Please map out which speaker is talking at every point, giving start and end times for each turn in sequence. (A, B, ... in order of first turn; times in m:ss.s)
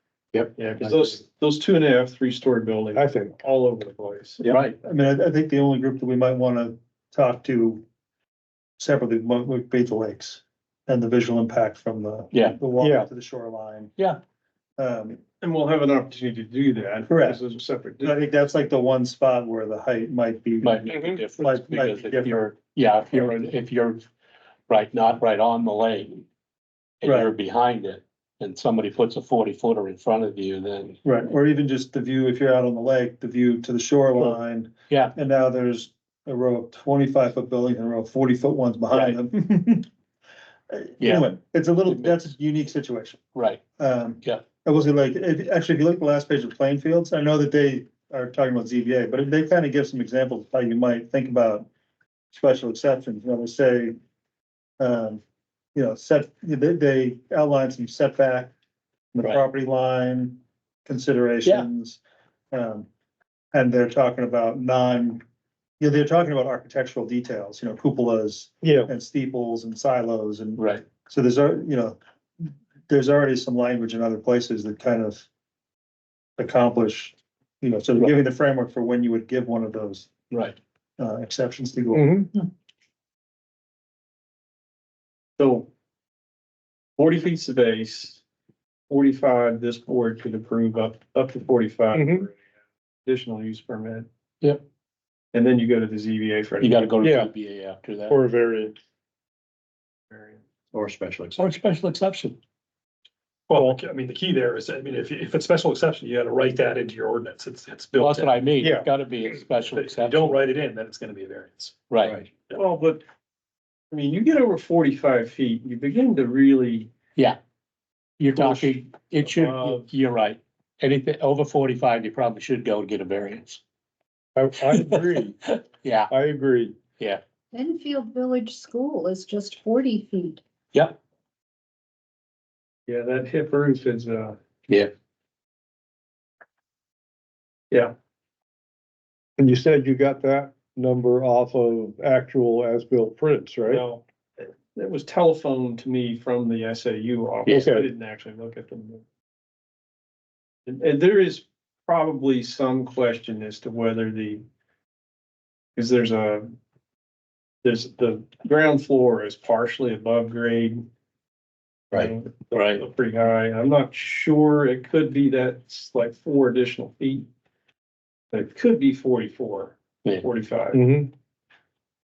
0:00.3-0:01.2 A
0:00.6-0:04.4 B
0:03.0-0:03.4 C
0:04.4-0:07.8 D
0:04.5-0:04.8 E
0:08.8-0:13.9 D
0:12.3-0:12.6 E
0:12.8-0:13.1 C
0:14.8-0:15.2 D
0:15.4-0:18.2 B
0:17.1-0:17.4 D
0:18.0-0:22.4 D
0:20.6-0:24.0 E
0:24.7-0:26.2 E
0:27.0-0:31.0 E
0:27.0-0:27.3 D
0:31.0-0:39.9 D
0:34.9-0:35.1 E
0:38.9-0:39.2 E
0:40.7-0:43.2 D
0:41.0-0:41.3 E
0:41.9-0:42.3 E
0:43.3-0:43.6 E
0:43.8-0:51.7 D
0:52.3-0:54.0 D
0:54.8-0:55.2 D
0:55.8-0:58.5 D
0:59.1-1:02.0 D
1:02.5-1:02.9 D
1:03.5-1:05.2 D
1:05.8-1:15.3 D
1:08.6-1:08.9 C
1:10.6-1:10.9 E
1:16.4-1:20.1 D
1:20.3-1:20.6 E
1:21.0-1:22.5 D
1:21.9-1:22.3 C
1:25.4-1:25.7 B
1:27.0-1:28.2 B
1:28.9-1:32.4 B
1:31.9-1:32.3 C
1:33.0-1:34.1 B
1:35.3-1:36.9 B
1:36.6-1:38.2 E
1:37.0-1:37.3 C
1:38.1-1:38.8 C
1:40.1-1:40.4 B
1:40.7-1:41.5 A
1:41.4-1:42.4 E
1:43.5-1:48.4 F
1:47.9-1:50.4 E
1:48.6-1:48.9 C
1:49.7-1:51.8 F
1:51.9-1:52.2 E
1:52.0-1:52.3 A
1:52.5-1:53.0 B
1:53.9-1:56.9 B
1:58.2-2:03.6 E
1:59.4-1:59.8 B
2:04.4-2:05.4 C
2:04.7-2:06.1 E
2:06.1-2:06.8 C
2:07.5-2:10.4 G
2:12.9-2:14.4 B
2:19.4-2:23.8 C
2:23.7-2:29.0 B
2:27.6-2:27.9 C
2:30.7-2:34.4 B
2:35.8-2:36.5 B
2:37.6-2:40.8 B
2:41.9-2:47.3 B
2:42.5-2:42.8 E
2:48.3-2:50.8 B
2:50.7-2:51.1 C